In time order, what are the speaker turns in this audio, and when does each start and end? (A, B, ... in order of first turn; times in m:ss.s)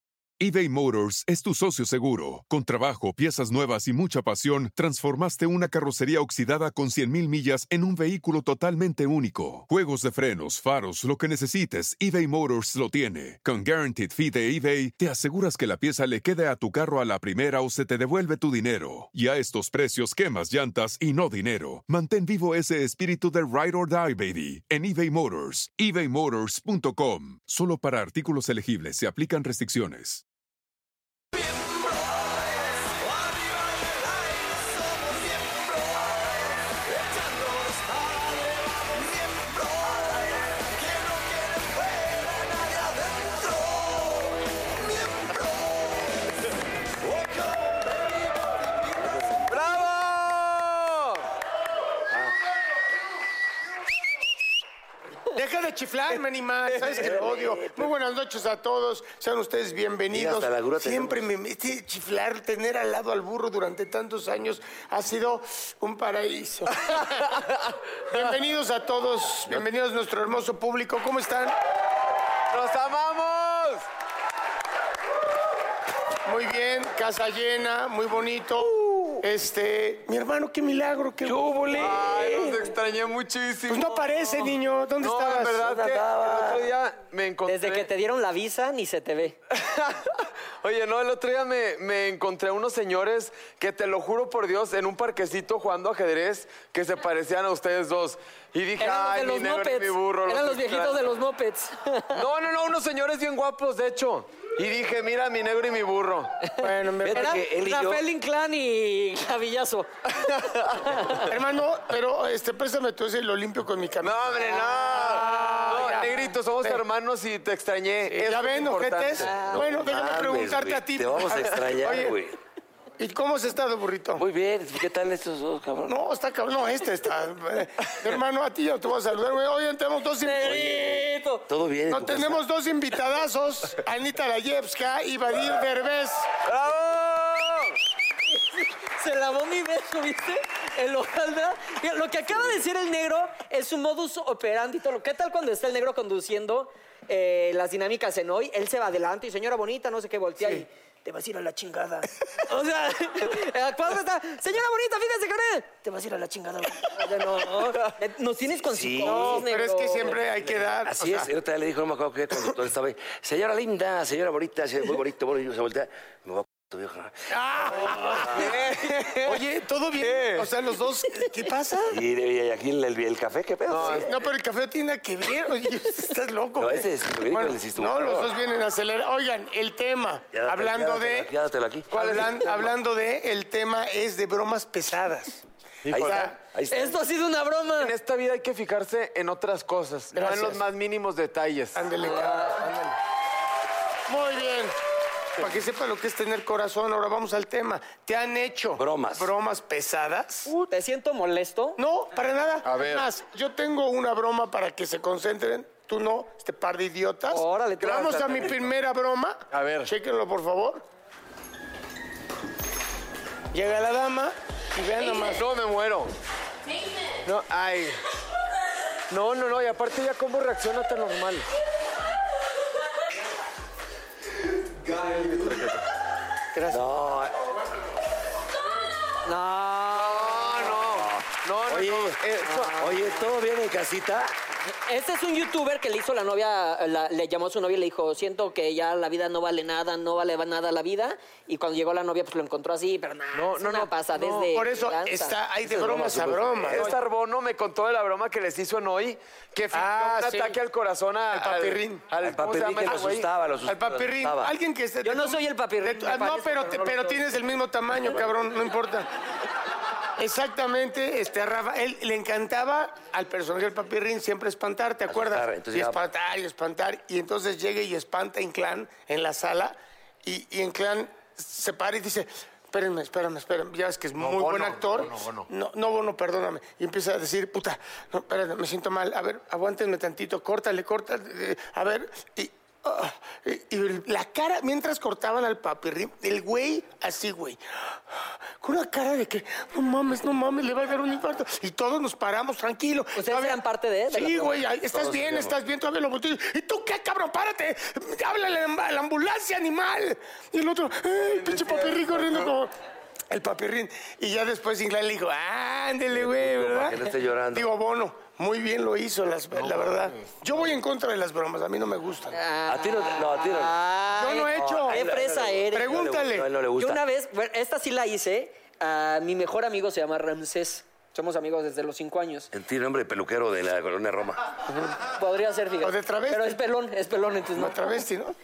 0:00.4-0:30.2 A
0:49.0-0:49.5 B
0:49.5-0:51.2 C
0:55.3-1:07.3 D
0:56.7-0:57.0 C
0:57.0-0:57.9 B
1:00.1-1:01.2 B
1:06.8-1:08.2 C
1:08.1-1:11.6 D
1:12.5-1:13.9 C
1:16.2-1:21.4 D
1:21.2-1:22.6 B
1:21.7-1:27.9 C
1:23.7-1:25.6 D
1:25.6-1:26.7 B
1:27.4-1:29.4 E
1:29.5-1:41.0 C
1:38.8-1:42.2 E
1:42.1-1:46.4 C
1:46.6-1:47.4 D
1:47.0-1:48.0 B
1:47.2-1:49.9 E
1:50.1-1:50.9 C
1:50.8-1:51.3 E
1:51.2-1:56.8 D
1:54.0-1:59.3 C
1:58.1-2:02.2 D
1:59.2-2:02.4 B
2:03.0-2:04.2 D
2:04.2-2:06.0 B
2:05.9-2:10.5 D
2:10.2-2:11.5 E
2:10.4-2:12.4 B
2:11.9-2:16.3 D
2:16.4-2:17.8 C
2:18.3-2:40.2 E
2:38.7-2:39.4 B
2:39.0-2:41.3 D
2:40.8-2:47.2 B
2:47.3-2:48.6 D
2:47.9-2:49.5 C
2:48.2-2:48.5 B
2:49.2-2:52.0 D
2:50.0-2:50.5 C
2:51.9-2:54.1 B
2:53.7-2:54.1 C
2:54.0-3:01.3 D
2:56.6-2:58.3 B
3:00.3-3:01.9 B
3:01.9-3:02.7 C
3:01.9-3:05.4 D
3:05.8-3:06.4 C
3:05.9-3:07.0 B
3:06.0-3:06.3 D
3:06.7-3:07.9 E
3:07.8-3:11.8 C
3:10.2-3:10.6 D
3:11.8-3:13.0 D
3:12.0-3:12.6 E
3:14.1-3:14.8 D
3:15.4-3:20.5 D
3:18.8-3:19.3 B
3:20.5-3:21.8 E
3:21.8-3:30.8 D
3:22.6-3:23.1 C
3:27.3-3:28.5 E
3:27.8-3:28.6 C
3:29.5-3:29.9 C
3:33.5-3:35.5 D
3:35.2-3:36.1 C
3:37.2-3:38.0 C
3:39.1-3:41.5 C
3:45.2-3:45.8 C
3:46.5-3:46.8 D
3:46.7-3:47.4 B
3:49.2-3:50.4 E
3:50.0-3:52.9 C
3:51.0-3:52.2 B
3:52.4-3:53.2 E
3:52.7-3:54.3 B
3:54.8-4:05.4 E
4:03.3-4:04.6 C
4:04.5-4:07.0 D
4:05.6-4:06.8 B
4:06.7-4:13.3 C
4:09.7-4:10.6 D
4:11.3-4:12.0 D
4:12.2-4:14.5 B
4:13.6-4:19.1 D
4:15.0-4:17.2 E
4:20.2-4:53.6 D
4:25.1-4:26.0 B
4:34.2-4:35.5 C
4:53.2-4:54.6 E
4:54.1-5:02.7 D
4:54.9-4:55.6 B
5:01.4-5:02.5 C
5:03.3-5:12.4 D
5:06.2-5:07.7 B
5:09.5-5:10.4 C
5:12.3-5:16.0 E
5:12.7-5:13.8 B
5:14.2-5:15.1 D
5:14.5-5:17.0 B
5:15.7-5:16.5 D
5:16.8-5:22.5 E
5:22.5-5:24.5 B
5:24.7-5:27.8 E
5:25.8-5:26.6 D
5:27.6-5:28.4 D